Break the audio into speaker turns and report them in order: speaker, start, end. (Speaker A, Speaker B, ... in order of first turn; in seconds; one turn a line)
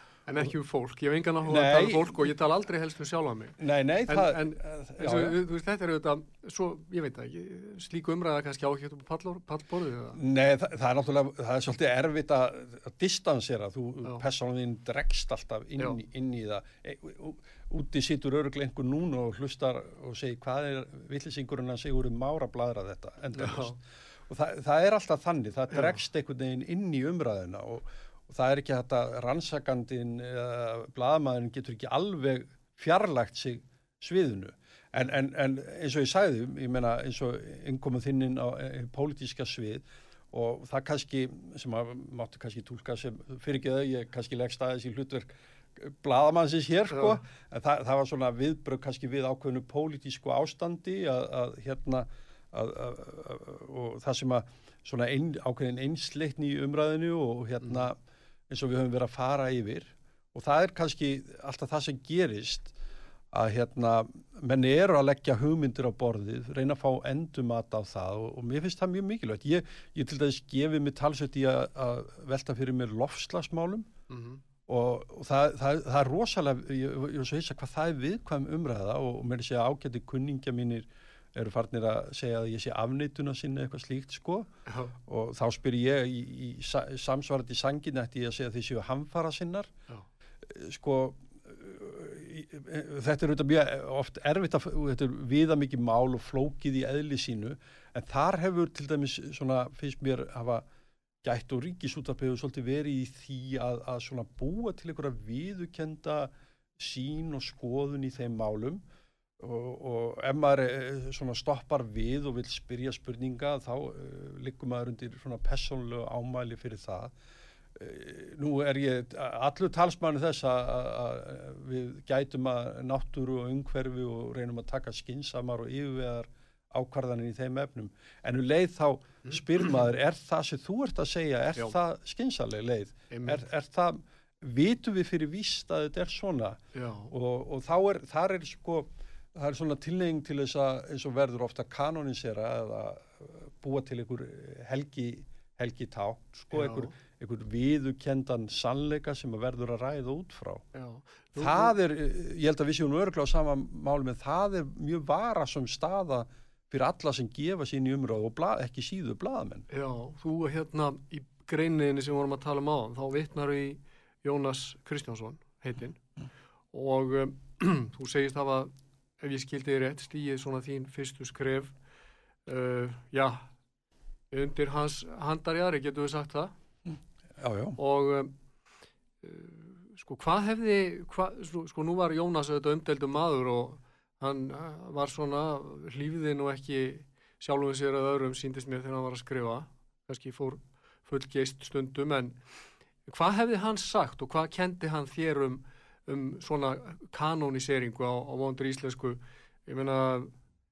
Speaker A: 0.3-10.2
Speaker B: 1.4-2.2
Speaker B: 3.6-5.4
Speaker B: 10.1-58.0
Speaker A: 23.3-23.8
Speaker B: 58.5-62.7
Speaker B: 63.3-73.9
Speaker A: 74.1-74.4
Speaker B: 74.7-84.5
Speaker A: 84.7-84.9
Speaker B: 85.0-89.7
Speaker B: 90.4-100.7
Speaker B: 101.2-108.8
Speaker B: 109.4-117.1
Speaker B: 117.7-150.6
Speaker A: 133.1-133.4
Speaker A: 136.7-137.1
Speaker A: 146.5-146.9
Speaker A: 150.7-151.7
Speaker B: 151.3-159.7
Speaker A: 159.7-166.0
Speaker A: 166.7-171.7
Speaker A: 172.4-173.5
Speaker A: 174.3-176.5
Speaker B: 177.4-177.8
Speaker A: 177.8-178.3
Speaker A: 179.2-192.4
Speaker A: 193.1-200.3